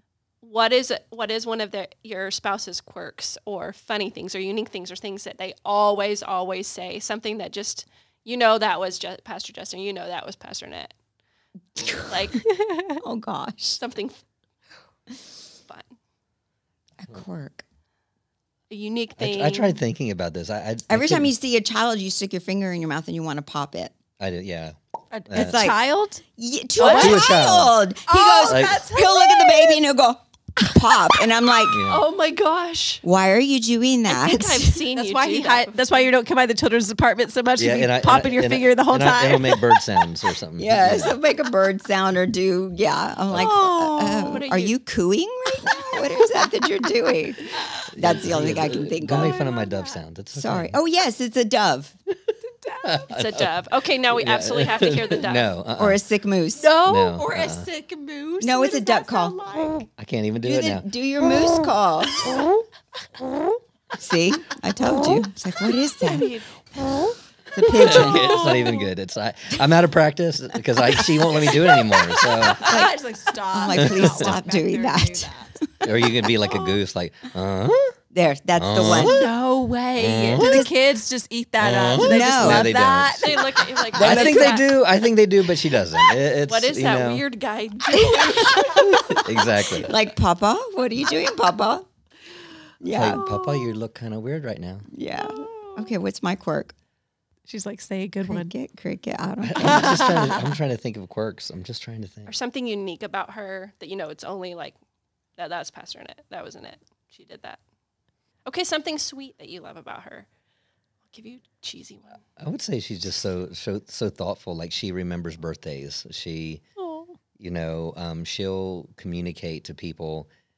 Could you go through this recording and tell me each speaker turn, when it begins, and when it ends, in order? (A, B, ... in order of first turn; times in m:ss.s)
0:00.4-0:10.9 A
0:11.8-0:12.2 B
0:12.1-0:12.4 A
0:12.7-0:13.0 C
0:13.0-0:13.8 B
0:13.8-0:14.2 A
0:17.0-0:17.6 B
0:18.7-0:19.8 A
0:19.2-0:21.3 D
0:20.9-0:23.9 B
0:24.2-0:24.8 D
0:25.1-0:26.2 C
0:25.3-0:25.6 D
0:25.3-0:25.8 B
0:26.4-0:31.8 B
0:26.8-0:27.4 C
0:26.9-0:27.7 D
0:28.1-0:29.8 C
0:28.4-0:28.8 D
0:31.7-0:32.1 D
0:31.8-0:33.0 A
0:33.0-0:34.8 B
0:34.1-0:35.8 A
0:34.9-0:40.0 C
0:37.6-0:41.2 D
0:40.6-0:49.4 B
0:43.3-0:44.4 C
0:44.2-0:44.7 A
0:45.6-0:46.5 C
0:47.5-0:47.8 C
0:47.9-0:50.7 D
0:49.0-0:50.0 C
0:50.4-0:52.0 B
0:52.4-0:53.1 C
0:52.8-0:53.6 D
0:53.1-0:55.5 A
0:54.1-0:56.0 D
0:55.8-0:56.7 B
0:56.6-0:59.9 C
0:56.8-0:57.7 D
0:58.4-0:59.4 B
1:00.0-1:00.8 D
1:00.4-1:02.4 B
1:03.9-1:06.3 B
1:04.9-1:05.2 C
1:06.0-1:06.5 A
1:06.8-1:07.1 C
1:07.5-1:08.6 B
1:07.7-1:08.9 C
1:07.7-1:12.8 D
1:11.5-1:15.5 C
1:12.5-1:13.0 B
1:13.5-1:16.0 B
1:13.7-1:14.3 D
1:15.8-1:17.9 D
1:18.1-1:19.2 B
1:18.6-1:19.3 D
1:18.9-1:23.6 C
1:20.0-1:20.7 D
1:20.4-1:20.7 B
1:21.6-1:27.2 D
1:22.0-1:22.7 B
1:23.2-1:24.7 A
1:24.0-1:24.6 B
1:26.5-1:29.2 A
1:28.0-1:29.0 B
1:28.9-1:30.0 D
1:29.8-1:31.9 B
1:32.8-1:33.2 B
1:32.9-1:34.9 D
1:33.1-1:33.8 C
1:34.9-1:36.7 B
1:35.2-1:35.9 C
1:37.4-1:38.5 C
1:38.2-1:40.1 B
1:39.4-1:42.3 D
1:39.6-1:40.5 C
1:42.3-1:44.8 A
1:45.4-1:47.6 A
1:48.4-1:50.3 A
1:51.1-1:52.2 A
1:52.4-1:56.6 D
1:56.8-1:57.1 C
1:57.4-2:00.3 D